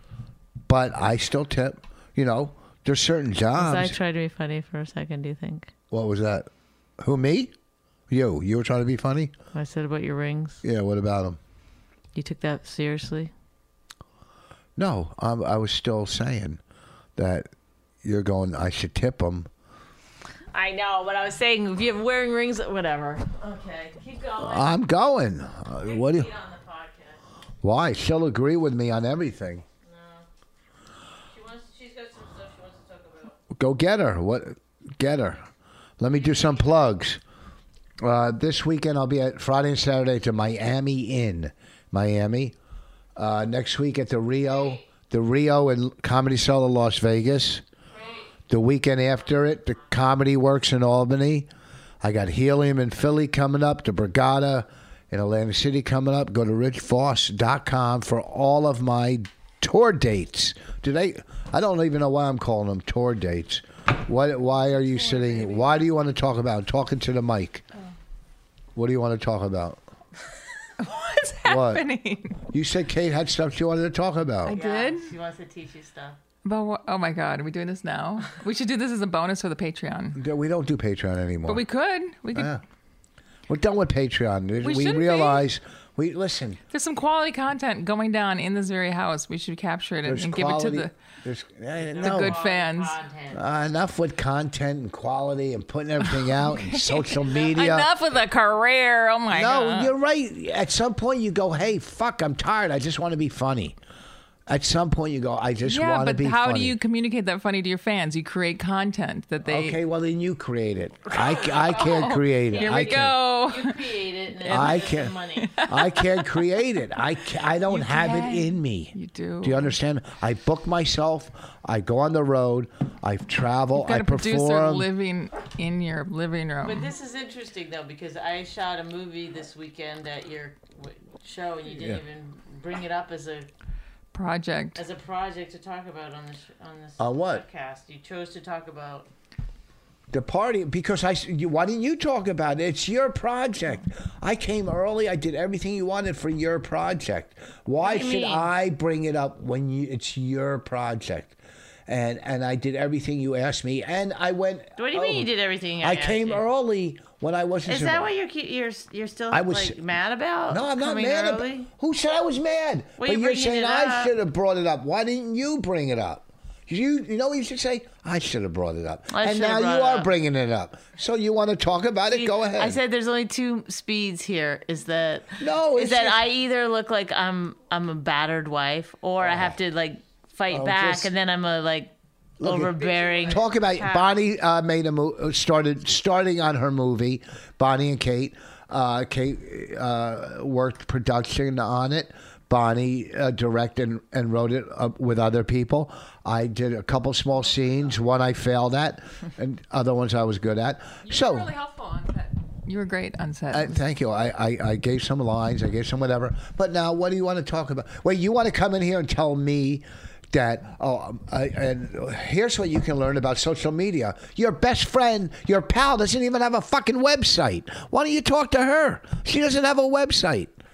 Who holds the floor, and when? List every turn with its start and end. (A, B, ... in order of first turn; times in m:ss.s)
0:00.7-0:04.0 A
0:03.6-0:05.7 B
0:05.9-0:06.5 A
0:07.0-0:07.5 A
0:08.1-0:09.3 A
0:09.5-0:10.6 B
0:10.6-0:11.4 A
0:12.1-0:13.3 B
0:14.8-0:16.6 A
0:17.2-0:17.5 A
0:18.0-0:19.5 A
0:20.5-0:24.7 B
0:24.4-0:26.3 A
0:25.8-0:27.2 B
0:27.6-0:29.6 A
0:29.8-0:30.2 B
0:31.3-0:33.4 B
0:33.5-0:35.4 A
0:36.0-0:37.2 A
0:36.1-0:36.8 B
0:38.0-0:42.5 A
0:43.2-0:47.6 A
0:48.5-0:51.5 A
0:52.0-1:07.6 A
1:05.1-1:05.7 C
1:08.7-1:09.8 A
1:10.8-1:12.4 C
1:11.4-1:11.8 A
1:12.5-1:14.6 A
1:14.4-1:15.1 C
1:14.5-1:16.2 B
1:16.4-1:20.2 C
1:20.1-1:21.6 A
1:21.4-1:22.5 C
1:22.3-1:22.6 A
1:23.5-1:26.6 A
1:24.6-1:25.5 C
1:26.7-1:30.9 C
1:30.0-1:32.4 A
1:31.8-1:33.4 B
1:32.0-1:33.0 C
1:33.3-1:37.9 A
1:36.0-1:39.9 C
1:39.3-1:43.8 A
1:44.5-1:46.8 A
1:45.6-1:49.8 C
1:49.4-1:53.2 A
1:51.1-1:55.6 B
1:51.2-1:56.3 C
1:54.4-2:04.9 A
1:57.7-1:59.7 C
2:03.7-2:06.9 C
2:06.6-2:13.5 B
2:14.1-2:14.8 C
2:14.8-2:19.1 B
2:17.0-2:17.4 A
2:20.1-2:31.4 A
2:27.8-2:28.5 B
2:31.9-2:38.1 A
2:34.8-2:36.4 B
2:37.6-2:41.7 B
2:39.3-2:39.8 A
2:40.5-2:52.8 A
2:43.0-2:44.1 B
2:49.1-2:50.1 B
2:52.1-3:04.2 B
2:55.4-2:56.2 A
2:59.2-2:59.5 A
3:00.5-3:01.1 A
3:02.4-3:21.5 A
3:02.7-3:03.5 C
3:17.3-3:18.1 C
3:21.0-3:23.8 C
3:23.5-3:40.5 A